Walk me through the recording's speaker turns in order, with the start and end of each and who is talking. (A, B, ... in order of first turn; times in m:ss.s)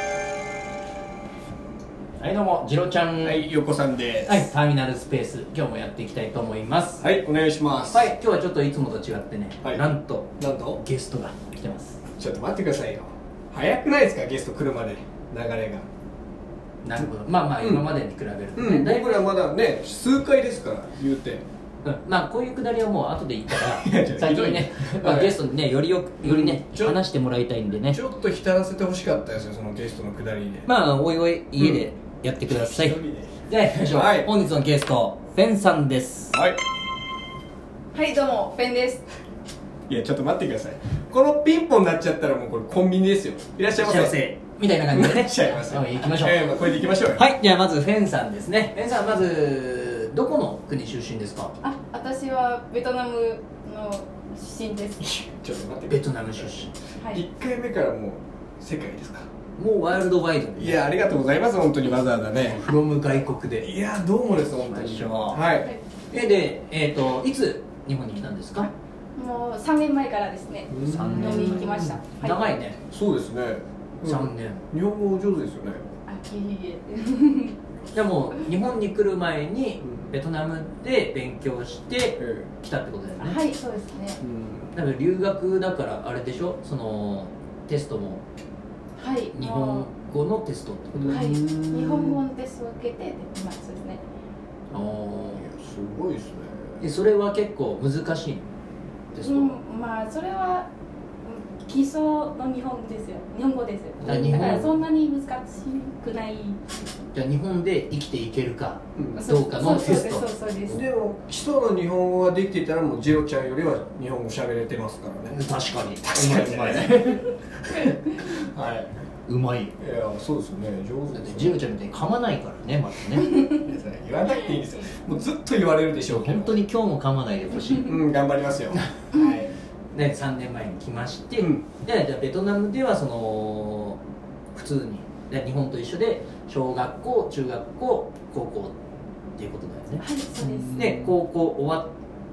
0:02.2-0:03.4 A
0:03.2-0:04.5 B
0:04.2-0:07.0 A
0:07.0-0:08.1 B
0:07.9-0:12.0 A
0:10.4-0:10.8 B
0:12.2-0:15.9 B
0:16.8-0:19.3 A
0:17.6-0:17.9 B
0:18.6-0:21.4 B
0:21.8-0:28.0 A
0:23.5-0:25.4 B
0:26.2-0:27.0 B
0:27.9-0:30.7 B
0:30.6-0:36.4 A
0:32.5-0:34.3 B
0:36.3-0:36.6 B
0:37.9-0:39.0 C
0:39.9-0:44.2 B
0:43.8-0:46.4 A
0:44.9-0:47.2 B
0:47.2-0:51.5 A
0:51.6-0:55.2 C
0:55.1-0:59.3 B
0:55.9-0:56.7 A
0:57.0-0:57.2 C
0:59.6-1:00.8 A
1:00.6-1:02.6 B
1:02.4-1:03.7 A
1:03.6-1:05.7 B
1:04.5-1:05.4 A
1:06.1-1:08.7 A
1:09.1-1:12.6 C
1:10.7-1:11.7 B
1:10.8-1:12.8 A
1:12.9-1:15.9 B
1:14.0-1:14.7 A
1:16.0-1:17.6 C
1:17.9-1:23.4 A
1:19.8-1:20.1 B
1:22.2-1:22.5 B
1:23.2-1:24.2 C
1:24.2-1:24.7 B
1:24.7-1:28.2 A
1:29.0-1:29.9 C
1:29.3-1:31.2 A
1:30.9-1:32.2 B
1:31.1-1:34.0 C
1:34.7-1:35.5 A
1:34.7-1:36.8 B
1:36.8-1:38.4 A
1:39.1-1:39.6 A
1:39.2-1:40.7 C
1:41.2-1:46.6 C
1:44.0-1:44.7 B
1:44.0-1:44.7 A
1:47.1-1:50.3 A
1:49.1-1:50.8 C
1:50.7-1:55.5 B
1:55.3-1:58.0 A
1:56.1-1:57.1 B
1:57.7-1:58.9 B
1:59.3-1:59.7 A
1:59.8-2:01.7 B
2:01.1-2:03.4 A
2:03.4-2:06.6 B
2:06.1-2:08.0 A
2:07.8-2:09.5 B
2:09.1-2:09.4 C
2:09.9-2:14.0 A
2:11.4-2:11.6 B
2:14.5-2:18.8 A
2:19.4-2:21.9 A
2:20.0-2:20.8 C
2:20.4-2:21.2 B